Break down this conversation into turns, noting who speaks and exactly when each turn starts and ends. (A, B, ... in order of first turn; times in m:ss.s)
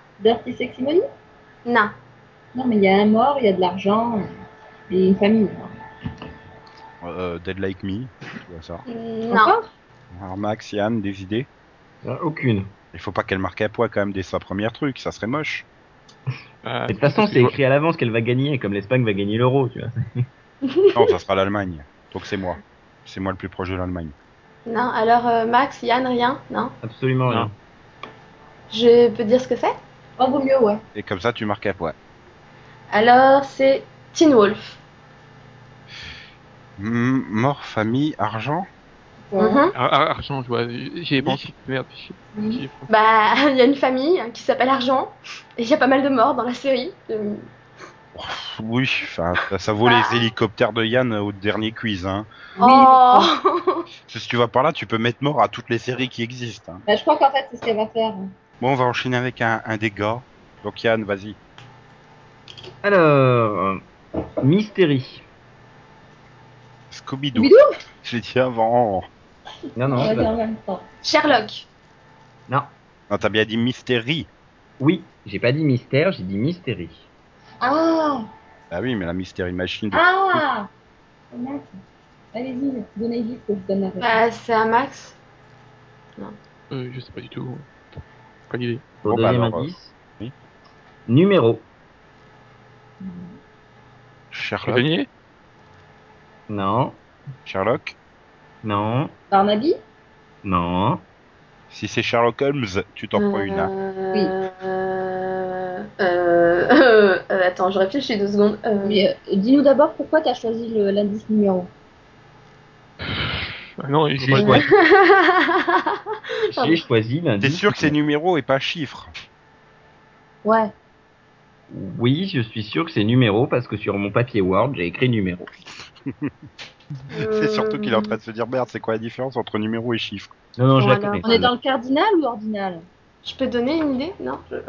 0:00.2-0:01.0 A
0:01.6-0:01.9 B
0:02.5-0:04.2 A
0:04.9-0:05.7 A
0:07.0-0:08.8 C
0:08.9-0:09.5 B
0:09.3-0:09.7 A
0:10.1-0:11.5 C
0:12.0-0:12.7 D
0:12.9-0:15.7 C
0:16.6-0:17.5 E
0:16.9-0:20.2 D
0:20.7-0:20.9 B
0:20.9-0:24.1 C
0:24.6-0:26.7 B
0:26.8-0:27.5 D
0:28.7-0:29.8 B
0:30.2-0:30.8 A
0:30.9-0:31.9 C
0:32.9-0:34.8 B
0:36.8-0:38.6 C
0:39.3-0:39.6 A
0:39.4-0:39.7 B
0:39.7-0:42.9 E
0:41.2-0:41.5 C
0:42.3-0:42.6 A
0:42.9-0:47.4 B
0:48.1-0:52.3 C
0:49.8-0:50.3 B
0:52.6-0:53.3 A
0:52.6-0:53.8 B
0:54.1-0:56.8 C
0:56.8-0:58.3 A
0:58.6-1:01.4 C
1:02.8-1:03.8 D
1:04.4-1:05.2 D
1:06.9-1:09.1 C
1:07.3-1:07.6 A
1:09.8-1:10.3 D
1:09.9-1:10.8 A
1:11.0-1:11.7 B
1:13.1-1:14.3 C
1:14.8-1:17.1 D
1:17.6-1:18.2 A
1:18.7-1:20.4 C
1:19.9-1:20.7 A
1:21.3-1:21.8 A
1:22.3-1:24.2 A
1:24.0-1:25.2 B
1:26.7-1:27.7 E
1:28.5-1:28.8 E
1:29.0-1:29.9 D
1:29.0-1:30.3 C
1:31.1-1:31.6 D
1:33.0-1:33.4 A
1:34.3-1:34.8 C
1:34.6-1:35.1 E
1:36.5-1:37.0 D
1:37.4-1:38.0 C
1:38.6-1:39.1 D
1:39.3-1:39.8 A
1:40.4-1:41.0 D
1:41.7-1:43.7 C
1:43.2-1:49.0 B
1:48.8-1:51.7 A
1:53.1-1:54.7 E
1:54.2-1:54.7 D
1:54.4-1:56.0 B
1:56.5-1:56.8 B
1:56.5-1:57.9 D
1:57.4-1:59.1 C
2:00.4-2:00.7 A
2:01.7-2:05.5 D
2:06.0-2:06.3 C
2:07.1-2:08.2 B
2:07.2-2:10.3 C
2:10.6-2:11.5 D
2:10.8-2:11.2 B
2:11.2-2:12.8 A
2:13.2-2:14.5 B